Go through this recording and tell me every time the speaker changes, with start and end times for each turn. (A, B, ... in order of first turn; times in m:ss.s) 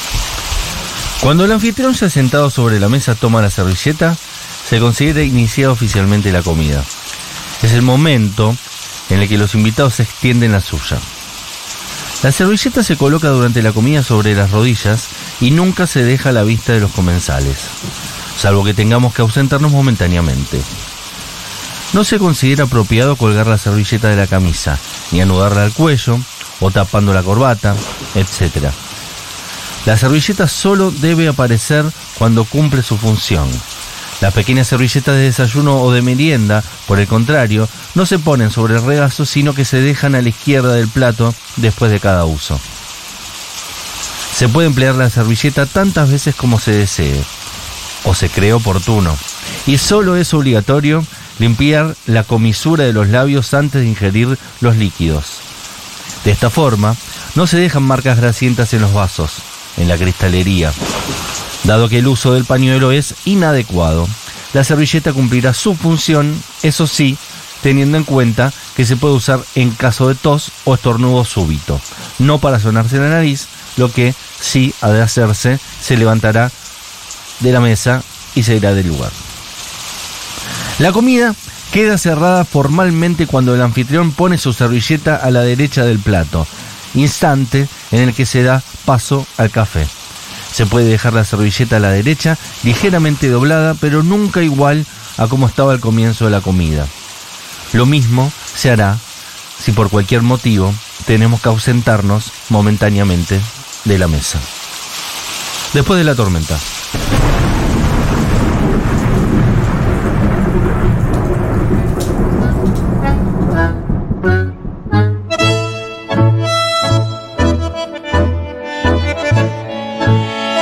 0:01.2-0:06.9 A
0:07.6-0:11.0 A
0:12.2-0:17.8 A
0:18.3-0:20.7 A
0:21.9-0:28.8 A
0:29.8-0:33.6 A
0:34.2-0:42.6 A
0:44.3-0:47.3 A
0:48.0-0:55.4 A
0:56.2-1:00.8 A
1:01.6-1:16.5 A
1:17.4-1:19.2 A
1:20.8-1:29.9 A
1:30.5-1:36.9 A
1:37.7-1:39.0 A
1:39.6-1:44.4 A
1:45.7-1:46.6 A